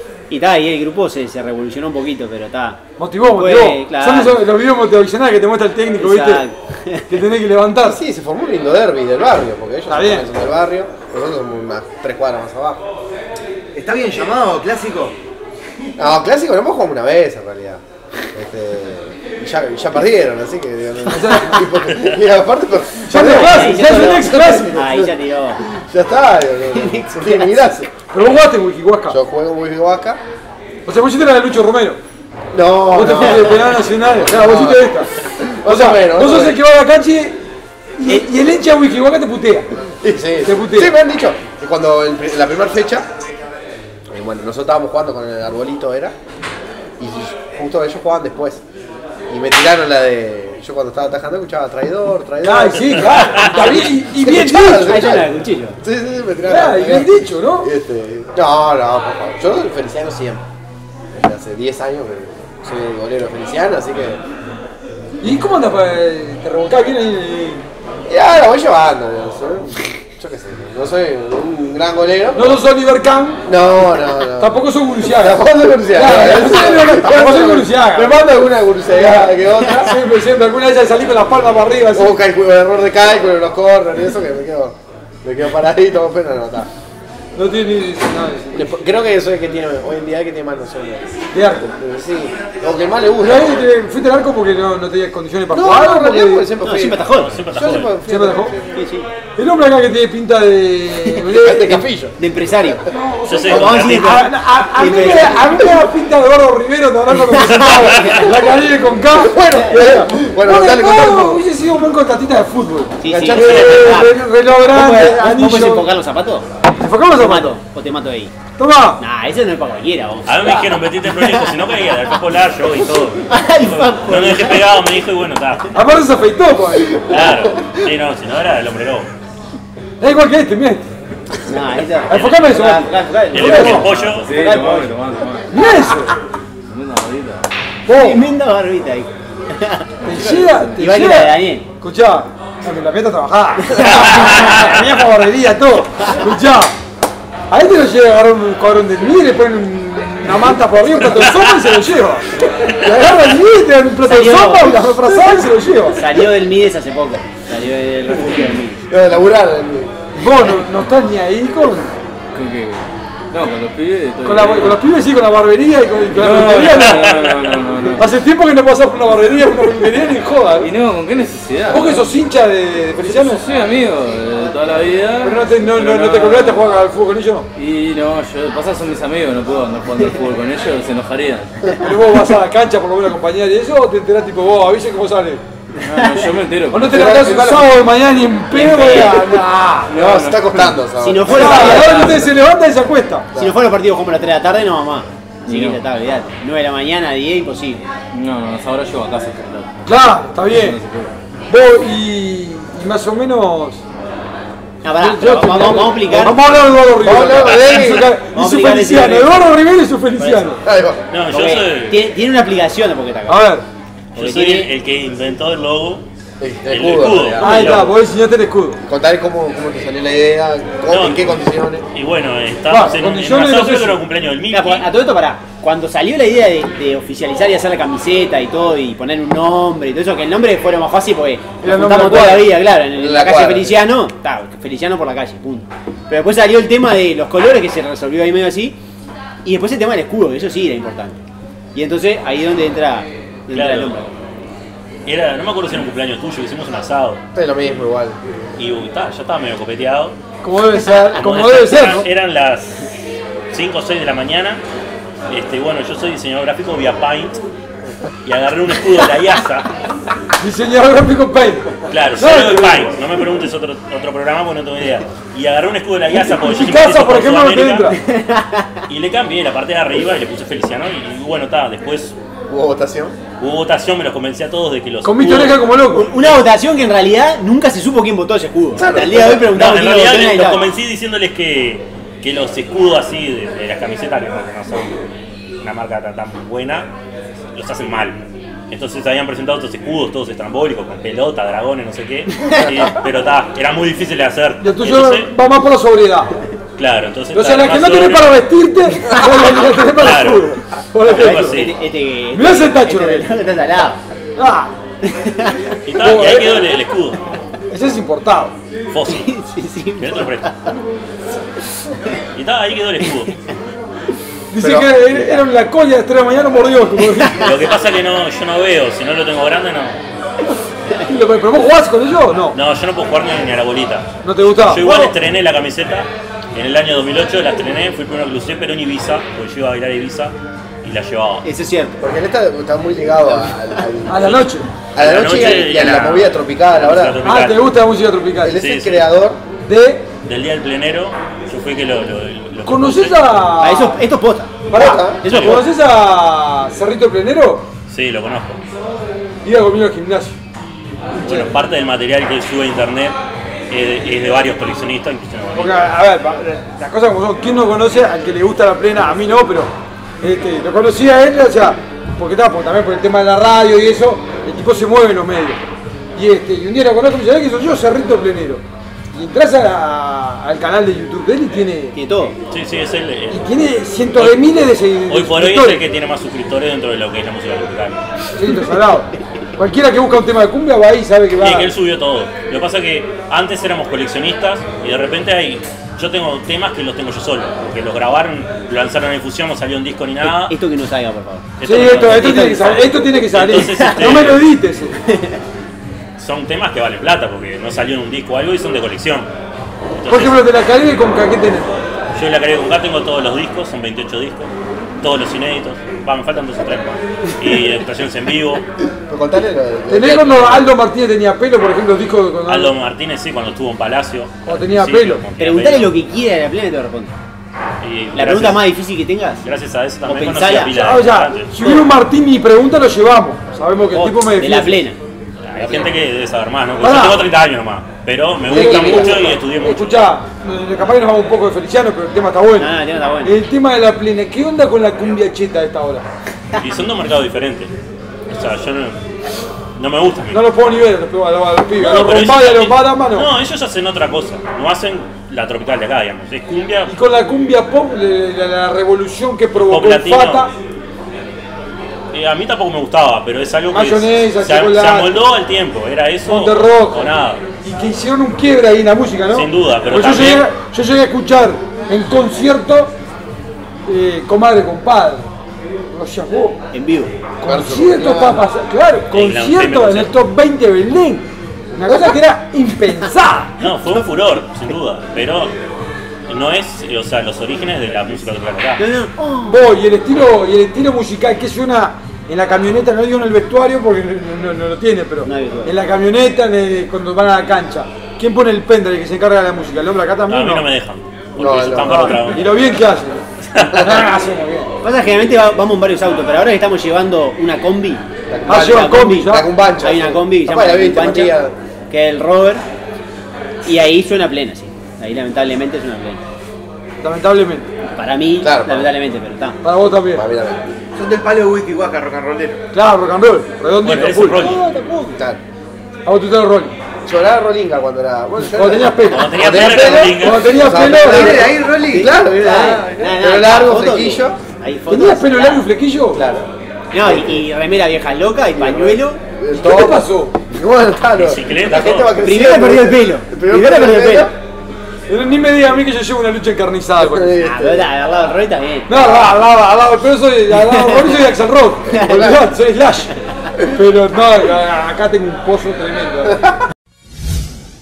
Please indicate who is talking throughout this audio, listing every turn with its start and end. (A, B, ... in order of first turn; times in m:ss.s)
0:00.3-0:04.4 A
0:03.0-0:06.4 B
0:06.0-0:07.1 A
0:07.1-0:08.0 B
0:07.8-0:12.8 C
0:09.9-0:10.3 B
0:13.7-0:15.2 D
0:16.0-0:27.9 C
0:21.1-0:21.7 B
0:23.0-0:24.8 B
0:23.2-0:25.6 A
0:26.7-0:27.7 A
0:28.1-0:29.2 B
0:29.1-0:30.2 C
0:30.9-0:32.0 B
0:32.5-0:36.6 C
0:32.9-0:35.1 B
0:35.6-0:37.4 B
0:38.0-0:39.7 B
0:40.0-0:43.1 C
0:40.4-0:40.9 B
0:44.1-0:46.2 C
0:47.0-0:48.6 C
0:49.3-1:00.5 C
0:52.4-0:55.0 B
0:53.0-0:53.7 E
0:54.7-0:55.8 A
0:56.5-0:57.7 B
1:01.1-1:04.2 C
1:05.2-1:07.6 B
1:08.1-1:12.6 C
1:12.4-1:13.5 B
1:13.5-1:20.0 C
1:14.3-1:18.3 B
1:18.9-1:22.1 B
1:21.9-1:26.7 C
1:27.4-1:28.7 B
1:28.5-1:33.7 C
1:31.3-1:31.7 B
1:33.2-1:36.5 B
1:35.5-1:38.8 C
1:36.6-1:37.4 A
1:37.1-1:38.0 E
1:38.1-1:38.5 B
1:38.7-1:39.1 A
1:39.4-1:41.8 B
1:41.2-1:42.9 C
1:42.2-1:42.8 A
1:42.9-1:55.9 B
1:43.3-1:44.3 E
1:43.5-1:45.7 A
1:47.3-1:48.4 E
1:47.4-1:48.2 A
1:49.1-1:51.4 C
1:53.0-1:56.5 A
1:53.1-1:54.0 C
1:56.7-1:57.6 B
1:57.2-1:58.3 A
1:58.6-1:59.0 B
1:59.0-2:01.5 A
2:00.3-2:06.0 E
2:03.3-2:04.8 A
2:05.7-2:07.2 B
2:07.0-2:09.1 E
2:10.0-2:10.9 B
2:11.4-2:14.9 A
2:12.1-2:13.9 B
2:13.3-2:14.3 E
2:13.5-2:15.6 F
2:15.5-2:16.1 B
2:16.7-2:17.4 F
2:17.9-2:18.2 B
2:17.9-2:21.6 A
2:20.0-2:26.7 B
2:23.6-2:24.7 A
2:27.5-2:36.0 B
2:34.0-2:34.9 A
2:35.9-2:38.8 A
2:38.9-2:40.0 C
2:40.2-2:41.9 B
2:42.3-2:44.8 F
2:44.2-2:47.2 B
2:46.1-2:48.1 F
2:46.6-2:47.6 E
2:48.0-2:50.7 B
2:50.6-2:52.1 F
2:51.7-2:53.4 B
2:53.0-2:56.7 F
2:55.2-2:57.5 B
2:57.6-3:01.8 F
3:01.8-3:05.4 B
3:05.8-3:07.2 F
3:05.9-3:06.3 A
3:06.7-3:09.9 B
3:06.9-3:07.7 C
3:08.5-3:10.8 F
3:08.6-3:09.2 A
3:09.9-3:12.1 C
3:11.0-3:12.3 A
3:11.3-3:13.3 B
3:11.8-3:12.3 F
3:13.4-3:17.8 A
3:15.5-3:15.8 F
3:18.1-3:21.1 F
3:19.9-3:20.8 B
3:21.5-3:23.8 B
3:24.8-3:26.6 A
3:25.0-3:30.6 B
3:27.0-3:28.1 C
3:27.4-3:28.0 E
3:28.3-3:29.3 A
3:30.2-3:30.6 A
3:30.6-3:31.0 C
3:31.1-3:32.0 E
3:31.3-3:33.5 A
3:33.3-3:33.6 B
3:34.2-3:34.7 A
3:34.2-3:36.0 E
3:36.4-3:37.8 C
3:36.7-3:37.9 E
3:37.4-3:38.8 B
3:38.9-3:41.9 C
3:40.9-3:41.4 E
3:41.9-3:44.9 E
3:42.7-3:44.0 B
3:44.5-3:58.8 A
3:51.6-3:52.5 B
3:52.0-3:52.2 C
3:53.0-3:53.8 C
3:59.4-4:01.2 A
4:01.8-4:04.1 A
4:03.5-4:04.0 E
4:05.1-4:07.2 E
4:07.4-4:08.2 C
4:08.6-4:10.2 E
4:10.4-4:12.1 B
4:11.1-4:12.9 E
4:13.5-4:14.6 E
4:15.3-4:17.4 E
4:18.2-4:19.7 E
4:20.4-4:22.9 B
4:21.9-4:27.9 E
4:26.1-4:28.0 B
4:27.9-4:28.8 A
4:28.9-4:32.2 E
4:32.5-4:33.2 C
4:33.4-4:36.5 E
4:35.0-4:36.1 B
4:35.9-4:40.7 A
4:38.8-4:39.5 C
4:39.2-4:45.0 E
4:45.6-4:46.9 E
4:47.5-4:48.2 E
4:48.7-4:55.3 E
4:52.4-4:52.7 A
4:54.6-4:56.3 B
4:56.8-4:58.4 E
4:57.3-5:01.6 B
4:59.8-5:01.7 E
5:01.1-5:04.0 A
5:02.3-5:03.3 B
5:04.4-5:04.7 B
5:05.0-5:05.8 A
5:05.8-5:07.2 E
5:06.0-5:06.8 B
5:07.7-5:08.6 B
5:08.9-5:09.4 E
5:09.1-5:10.8 A
5:10.0-5:10.5 E
5:12.3-5:13.4 E
5:14.5-5:17.5 B
5:14.6-5:15.3 C
5:17.2-5:17.5 A
5:17.4-5:20.0 E
5:21.1-5:22.6 B
5:22.5-5:30.3 E
5:24.2-5:25.2 B
5:30.8-5:31.5 E
5:31.4-5:32.0 A
5:32.0-5:34.4 C
5:34.1-5:34.7 B
5:35.0-5:37.3 C
5:35.0-5:37.8 E
5:37.2-5:38.6 B
5:38.4-5:39.4 C
5:38.6-5:39.1 E
5:39.7-5:40.1 B
5:40.3-5:43.4 E
5:42.7-5:44.0 B
5:43.6-5:45.6 A
5:44.7-5:47.7 B
5:44.7-5:45.2 C
5:45.2-5:45.7 E
5:47.9-5:48.6 E
5:49.4-5:50.4 B
5:51.1-5:51.5 B
5:51.2-5:53.2 E
5:53.7-5:55.8 E
5:55.6-6:12.0 B
6:11.9-6:12.4 A
6:12.5-6:13.4 E
6:13.3-6:15.8 B
6:14.2-6:18.0 E
6:18.4-6:21.7 B
6:21.4-6:30.6 E
6:30.3-6:33.0 A
6:31.6-6:34.5 E
6:31.6-6:35.0 B
6:33.7-6:34.1 A
6:35.0-6:35.4 A
6:36.2-6:39.3 E
6:39.9-6:40.5 E
6:40.1-6:41.8 B
6:42.2-6:48.6 E
6:49.1-6:50.7 C
6:49.9-6:52.7 B
6:52.5-6:55.9 E
6:54.5-6:55.2 B
6:55.4-6:57.1 A
6:57.8-6:58.7 E
6:58.1-6:59.4 A
6:59.4-7:01.8 E
7:00.0-7:00.8 A
7:00.7-7:04.8 B
7:03.9-7:05.0 A
7:05.4-7:10.1 E
7:06.8-7:07.3 B
7:08.5-7:09.2 C
7:08.5-7:12.7 B
7:12.6-7:13.3 A
7:13.2-7:16.1 B
7:16.6-7:17.7 E
7:18.3-7:19.0 E
7:19.8-7:20.5 E
7:20.3-7:23.3 B
7:21.8-7:26.9 E
7:26.9-7:30.5 B
7:29.5-7:30.5 E
7:32.1-7:37.4 E
7:33.7-7:35.2 B
7:36.3-7:37.1 B
7:37.6-7:43.0 B
7:39.3-7:40.5 E
7:43.9-7:45.3 B
7:45.9-7:46.6 B
7:46.7-7:47.1 A
7:47.4-7:51.2 B
7:47.4-7:48.4 C
7:49.1-7:50.1 E
7:51.8-7:53.5 B
7:51.9-7:52.2 C
7:53.6-7:55.5 E
7:56.3-7:58.8 E
7:58.8-7:59.7 A
7:59.5-8:10.7 B
8:05.2-8:05.8 A
8:10.3-8:12.7 E
8:11.4-8:12.3 C
8:11.9-8:14.7 B
8:13.5-8:14.0 E
8:14.8-8:21.4 A
8:18.3-8:21.6 C
8:18.5-8:19.5 B
8:21.9-8:22.6 A
8:23.6-8:26.2 A
8:27.0-8:27.7 B
8:27.9-8:29.6 A
8:28.4-8:28.9 C
8:29.6-8:30.2 B
8:30.1-8:30.7 C
8:31.0-8:32.6 D
8:32.7-8:34.4 B
8:33.8-8:34.6 E
8:34.4-8:35.2 A
8:35.1-8:35.4 C
8:36.0-8:36.8 B
8:37.0-8:44.4 C
8:38.6-8:41.4 B
8:39.1-8:40.6 E
8:40.8-8:45.7 A
8:41.1-8:42.1 D
8:42.5-8:42.8 B
8:44.9-8:46.2 B
8:46.1-8:46.5 C
8:46.9-8:49.2 A
8:47.0-8:47.5 C
8:48.6-8:54.3 C
8:49.5-8:50.4 B
8:51.2-8:52.1 E
8:52.2-8:54.3 A
8:55.1-8:57.3 B
8:57.0-8:57.9 C
8:57.4-8:59.2 A
8:58.9-9:06.4 B
8:59.0-8:59.3 C
9:02.0-9:02.4 C